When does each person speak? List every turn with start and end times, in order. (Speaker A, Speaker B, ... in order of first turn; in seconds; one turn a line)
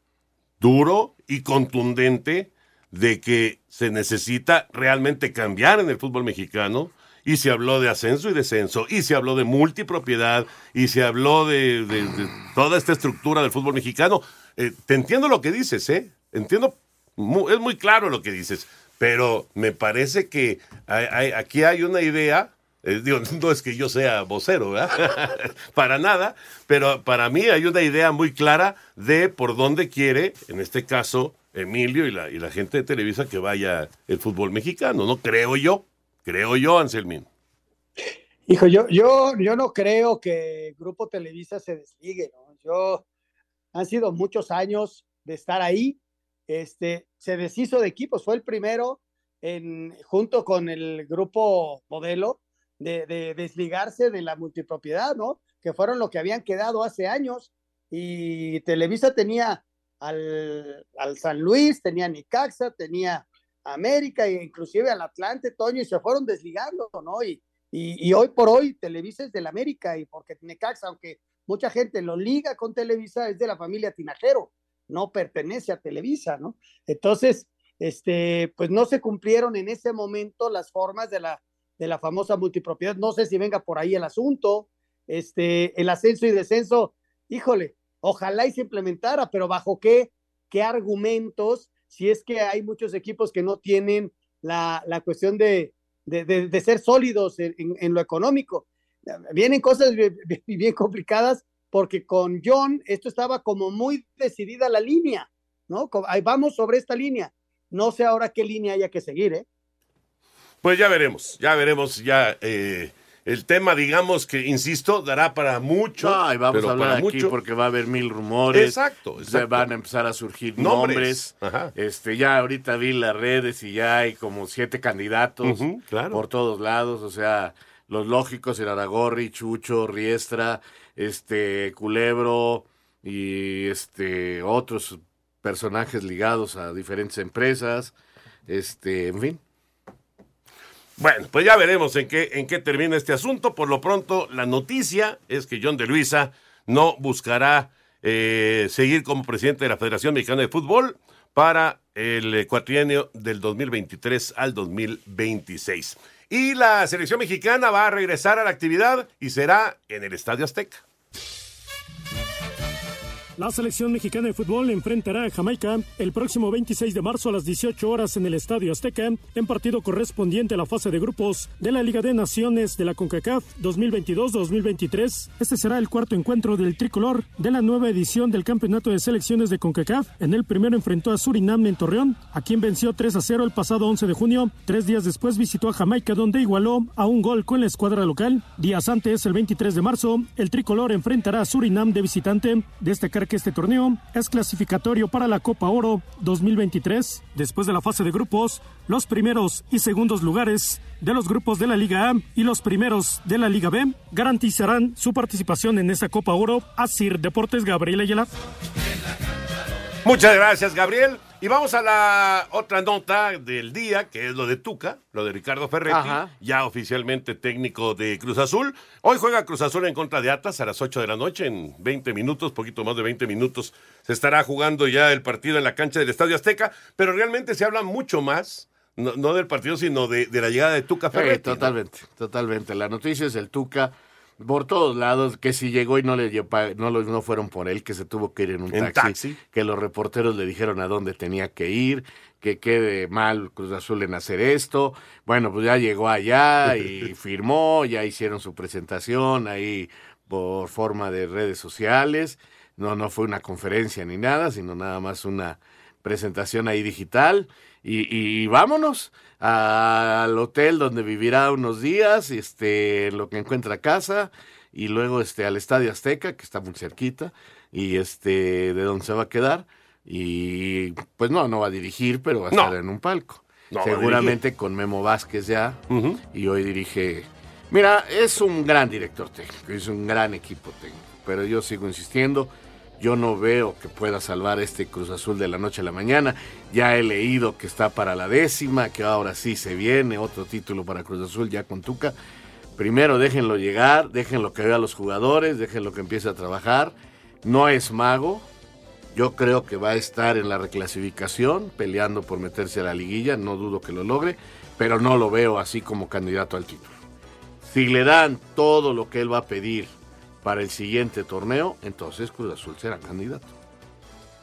Speaker A: 0.6-37.3
Speaker B: 38.5-43.0
Speaker B: 43.7-109.5
Speaker A: 110.6-117.3
Speaker C: 116.0-137.9
Speaker A: 118.5-119.7
Speaker A: 120.6-121.7
Speaker A: 125.4-126.2
Speaker C: 138.5-139.4
Speaker A: 141.0-160.8
Speaker D: 163.4-208.3
Speaker A: 210.0-231.7
Speaker C: 215.9-216.3
Speaker C: 231.1-275.8
Speaker A: 238.7-239.4
Speaker A: 273.7-274.4
Speaker A: 275.9-276.2
Speaker C: 276.3-292.1
Speaker C: 292.8-298.4
Speaker C: 299.1-306.9
Speaker C: 307.6-309.9
Speaker C: 310.4-313.5